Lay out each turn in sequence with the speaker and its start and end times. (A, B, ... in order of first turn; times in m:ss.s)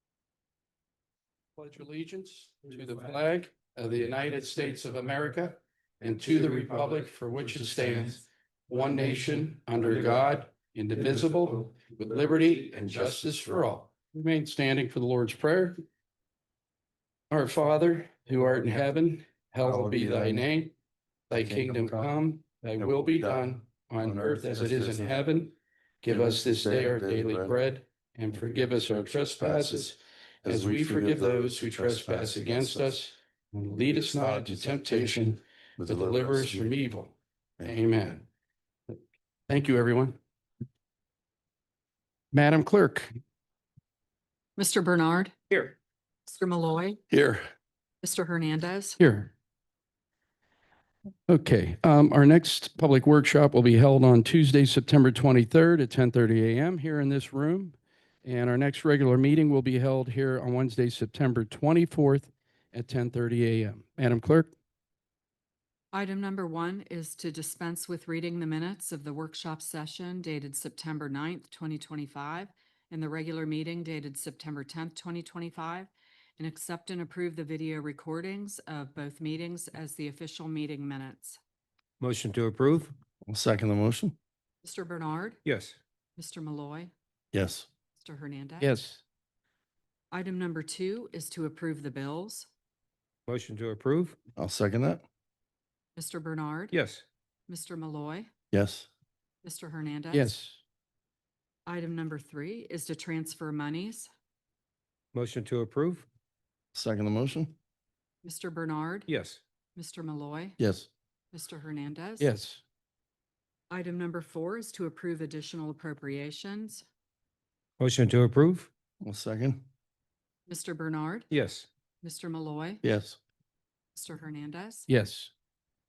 0:01.6-0:15.8 A
0:17.3-0:20.7 A
0:19.6-0:20.4 B
0:21.3-0:38.2 A
0:21.3-0:22.1 B
0:22.8-0:23.5 B
0:24.0-0:25.2 B
0:26.1-0:27.5 B
0:29.4-0:29.9 B
0:30.4-0:33.0 B
0:33.8-0:36.7 B
0:39.5-0:40.2 A
0:42.3-0:43.1 A
0:44.6-0:47.0 C
0:47.1-0:47.4 B
0:48.0-0:49.0 C
0:49.0-0:49.3 A
0:51.3-1:04.5 A
1:05.9-1:21.4 C
1:22.0-1:22.9 D
1:23.2-1:24.1 B
1:24.6-1:25.4 C
1:25.4-1:25.8 D
1:26.2-1:26.9 C
1:27.3-1:27.7 B
1:27.9-1:28.7 C
1:28.6-1:29.0 A
1:30.1-1:32.5 C
1:33.3-1:34.2 D
1:34.4-1:35.0 B
1:36.0-1:36.8 C
1:36.7-1:37.0 D
1:37.5-1:38.3 C
1:38.5-1:38.9 B
1:39.4-1:40.3 C
1:40.1-1:40.6 A
1:41.6-1:44.1 C
1:45.1-1:46.0 D
1:46.7-1:47.6 B
1:48.2-1:49.1 C
1:49.1-1:49.4 D
1:49.8-1:50.6 C
1:50.6-1:50.9 B
1:51.3-1:52.3 C
1:52.2-1:52.6 A
1:53.7-1:56.8 C
1:57.8-1:58.7 D
1:59.0-1:59.6 B
2:00.5-2:01.3 C
2:01.3-2:01.6 D
2:02.0-2:02.8 C
2:02.8-2:03.2 B
2:03.9-2:04.9 C
2:04.9-2:05.3 A